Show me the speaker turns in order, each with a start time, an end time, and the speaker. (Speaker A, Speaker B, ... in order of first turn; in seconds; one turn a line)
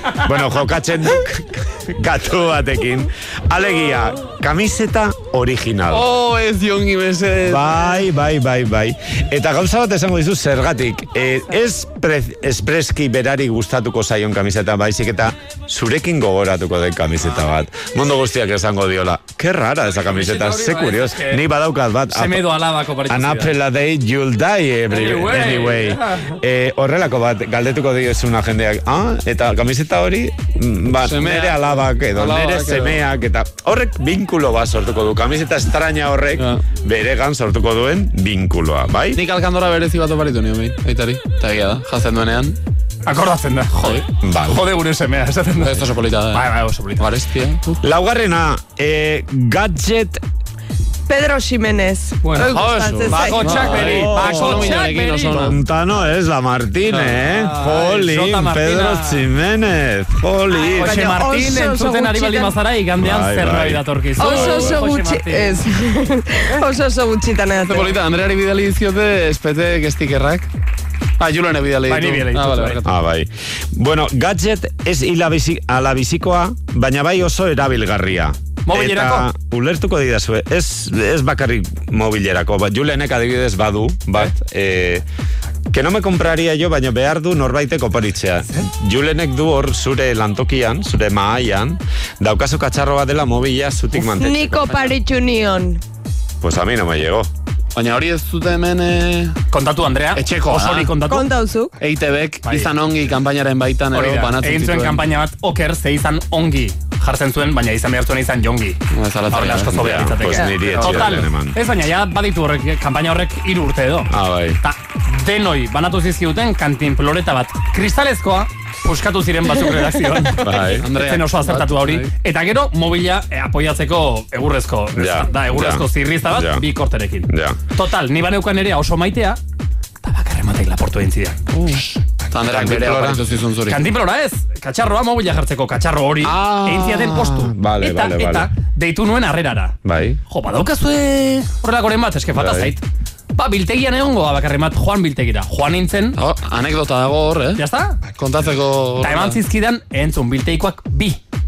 Speaker A: 0.2-6.1
Speaker B: 5.9-7.8
Speaker A: 7.4-22.5
Speaker C: 19.9-21.4
Speaker C: 22.1-23.5
Speaker A: 23.1-39.2
Speaker C: 24.9-26.4
Speaker B: 31.0-33.0
Speaker B: 36.4-36.6
Speaker B: 39.1-42.6
Speaker C: 43.1-45.8
Speaker A: 44.2-44.6
Speaker B: 45.6-46.5
Speaker C: 46.3-47.1
Speaker B: 47.0-47.8
Speaker A: 47.8-50.2
Speaker D: 51.1-53.7
Speaker C: 52.2-55.5
Speaker B: 52.4-55.5
Speaker A: 53.7-54.7
Speaker A: 55.3-61.1
Speaker B: 56.9-57.3
Speaker C: 57.3-59.3
Speaker D: 60.5-62.5
Speaker C: 60.8-65.6
Speaker A: 63.0-63.9
Speaker D: 64.2-67.9
Speaker B: 64.3-64.7
Speaker B: 67.6-70.5
Speaker B: 71.2-72.9
Speaker C: 71.9-72.8
Speaker A: 72.8-85.0
Speaker C: 78.7-79.3
Speaker A: 85.7-94.8
Speaker D: 94.1-95.8
Speaker A: 96.4-97.3
Speaker B: 97.7-99.4
Speaker C: 99.5-101.3
Speaker B: 100.2-100.9
Speaker D: 101.1-101.7
Speaker B: 101.8-105.0
Speaker C: 102.5-102.7
Speaker C: 103.9-108.8
Speaker B: 108.9-110.0
Speaker C: 109.3-114.1
Speaker A: 109.7-111.6
Speaker B: 110.7-111.2
Speaker A: 114.1-114.6
Speaker C: 114.6-129.4
Speaker A: 120.4-120.9
Speaker B: 120.8-122.1
Speaker A: 125.0-126.6
Speaker A: 127.3-127.6
Speaker C: 130.0-131.4
Speaker B: 131.6-133.8
Speaker A: 132.5-133.2
Speaker C: 133.7-139.8
Speaker B: 136.3-136.6
Speaker A: 136.3-138.5
Speaker A: 139.8-140.2
Speaker C: 140.3-142.8
Speaker A: 142.4-142.7
Speaker C: 143.3-146.2
Speaker B: 146.2-147.6
Speaker C: 147.6-148.0
Speaker B: 148.2-149.4
Speaker C: 149.0-151.2